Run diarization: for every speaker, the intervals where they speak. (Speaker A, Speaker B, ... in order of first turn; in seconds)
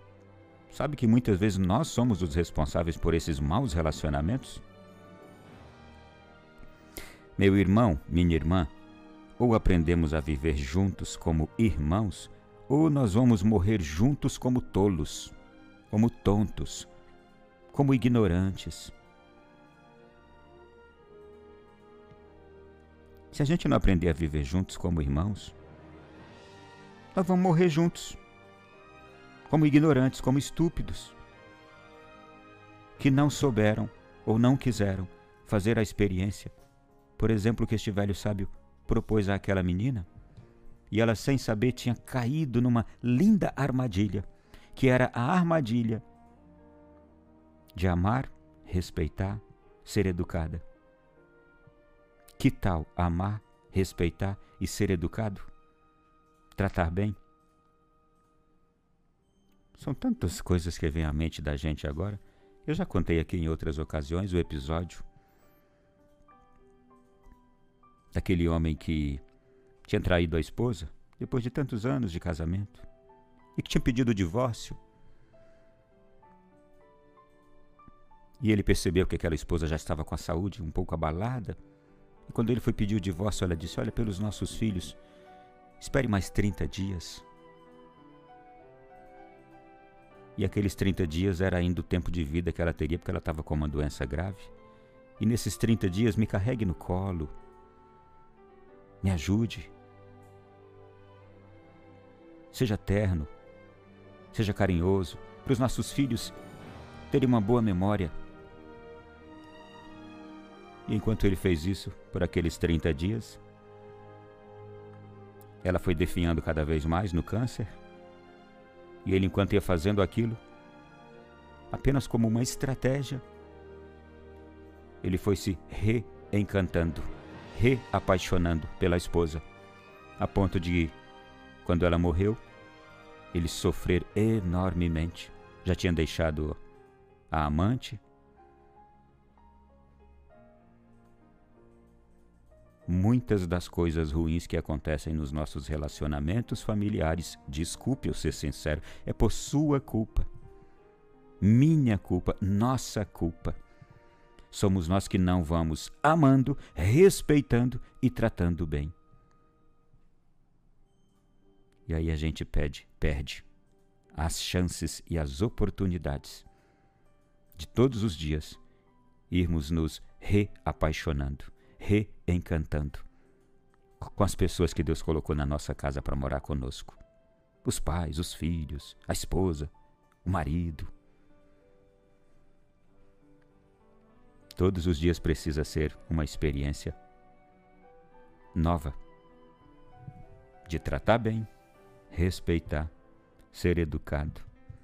Speaker A: 0.7-4.6, 7.4-8.7, 9.4-15.3, 15.9-16.9, 17.7-18.9, 23.3-25.6, 27.1-28.2, 29.5-31.2, 33.0-36.5, 37.2-40.1, 40.9-46.0, 47.7-50.6, 52.4-55.5, 56.5-57.2, 59.8-65.0, 68.1-69.2, 69.9-72.9, 73.6-74.8, 78.4-81.6, 82.3-85.0, 85.8-87.2, 90.4-94.5, 95.2-97.3, 99.0-99.7, 102.5-103.3, 104.3-106.4, 107.1-108.1, 110.9-113.4, 115.6-117.7, 119.0-120.4, 121.7-123.2, 125.0-129.4, 130.2-131.0, 131.6-132.4, 133.3-136.6, 137.3-138.0, 142.9-150.3, 151.4-153.6, 154.5-158.9, 161.9-163.5, 164.1-166.5, 167.6-168.6, 169.3-173.1, 174.0-177.0, 177.6-179.7, 180.2-180.9, 184.6-187.0, 188.5-189.0, 190.7-191.5, 192.1-192.9, 193.5-194.5